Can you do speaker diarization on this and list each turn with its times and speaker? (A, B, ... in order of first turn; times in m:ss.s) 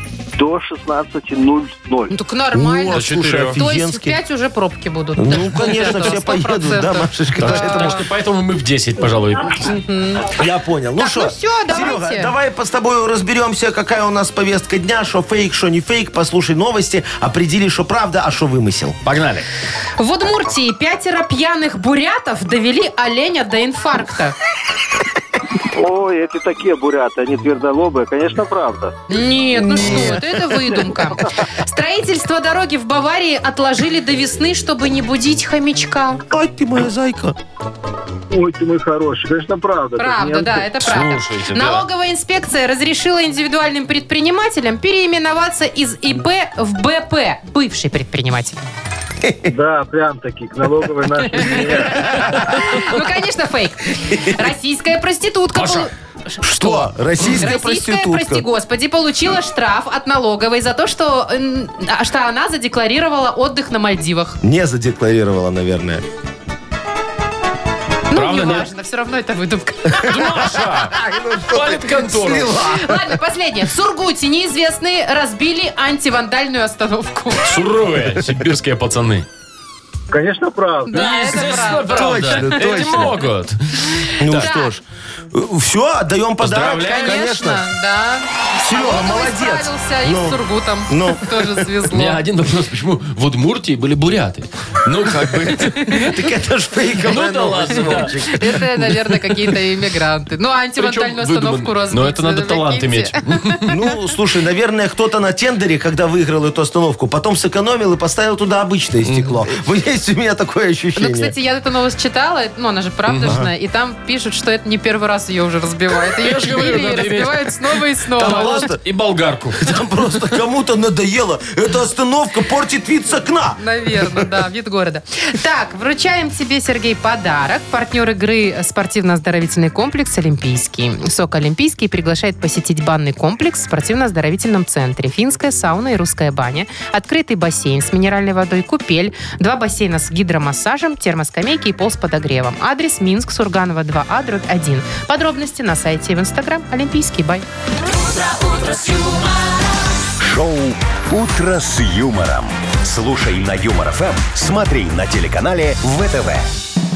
0:00.4-0:02.2 A
0:02.1-0:08.0 B
0:02.5-0:04.2 C
0:02.9-0:03.6 D
0:05.2-0:08.0 C
0:05.6-0:06.1 D
0:07.4-0:09.7 D
0:09.7-0:10.4 B
0:10.3-0:19.0 C
0:11.0-0:12.3 B
0:19.0-0:19.5 D
0:20.0-0:24.3 B
0:25.7-0:29.0 A
0:29.1-0:36.2 B
0:29.7-0:30.2 C
0:29.8-0:31.0 A
0:36.3-0:37.3 C
0:38.3-0:40.9 A
0:40.0-0:48.6 B
0:40.8-0:41.8 D
0:49.4-0:52.1 A
0:51.3-1:04.4 B
0:52.0-0:52.8 C
0:55.5-0:55.9 D
0:56.4-0:58.4 C
1:04.4-1:06.0 C
1:08.1-1:10.5 B
1:08.1-1:08.7 D
1:10.0-1:12.5 D
1:10.0-1:13.1 C
1:12.5-1:17.5 B
1:17.4-1:19.2 D
1:20.1-1:21.1 A
1:20.8-1:23.2 B
1:20.9-1:24.5 D
1:21.9-1:23.2 C
1:23.9-1:24.7 B
1:24.2-1:27.7 C
1:26.4-1:27.2 D
1:26.8-1:32.2 B
1:28.6-1:31.7 C
1:31.9-1:36.0 D
1:35.8-1:36.1 B
1:36.0-1:39.2 C
1:37.0-1:38.2 D
1:37.8-1:43.9 B
1:40.8-1:43.7 D
1:43.7-1:51.3 C
1:49.0-1:49.4 D
1:51.0-1:58.7 B
1:53.1-1:53.4 D
1:53.2-1:53.5 C
1:56.0-2:00.4 D
1:58.2-1:58.8 C
1:59.6-2:04.2 C
2:03.6-2:27.4 B
2:30.2-2:36.5 E